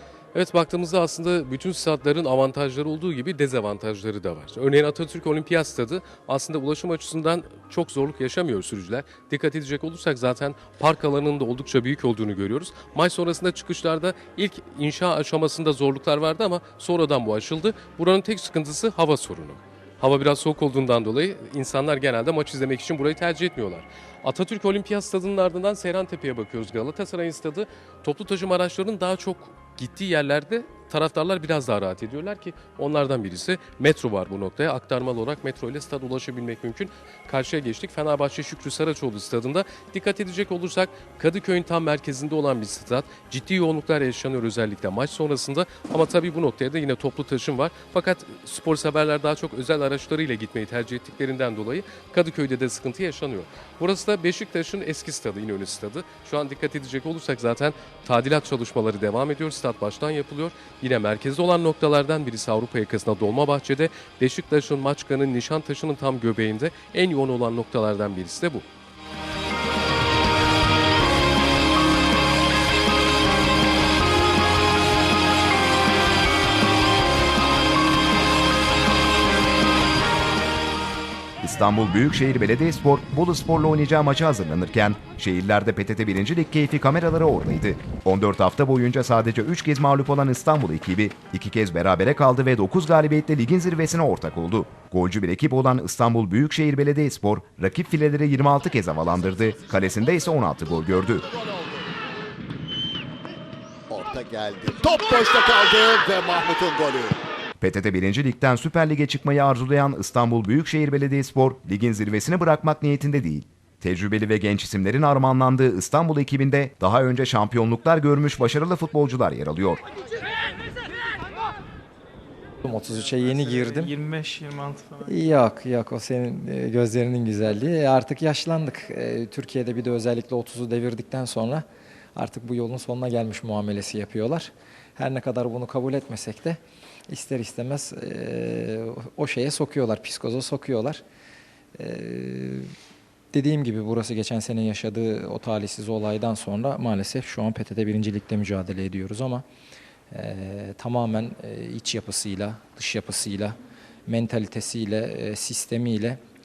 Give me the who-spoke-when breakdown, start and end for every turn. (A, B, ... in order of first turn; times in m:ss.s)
0:00.3-1:08.6 A
1:21.4-1:41.3 B
1:39.3-1:40.0 C
1:41.3-1:41.7 C
1:43.9-1:47.2 C
1:47.6-1:59.8 B
2:02.6-2:04.0 D
2:03.2-2:05.2 E
2:05.0-2:21.0 D
2:21.8-2:22.7 D
2:23.3-2:29.4 D
2:30.1-2:36.2 D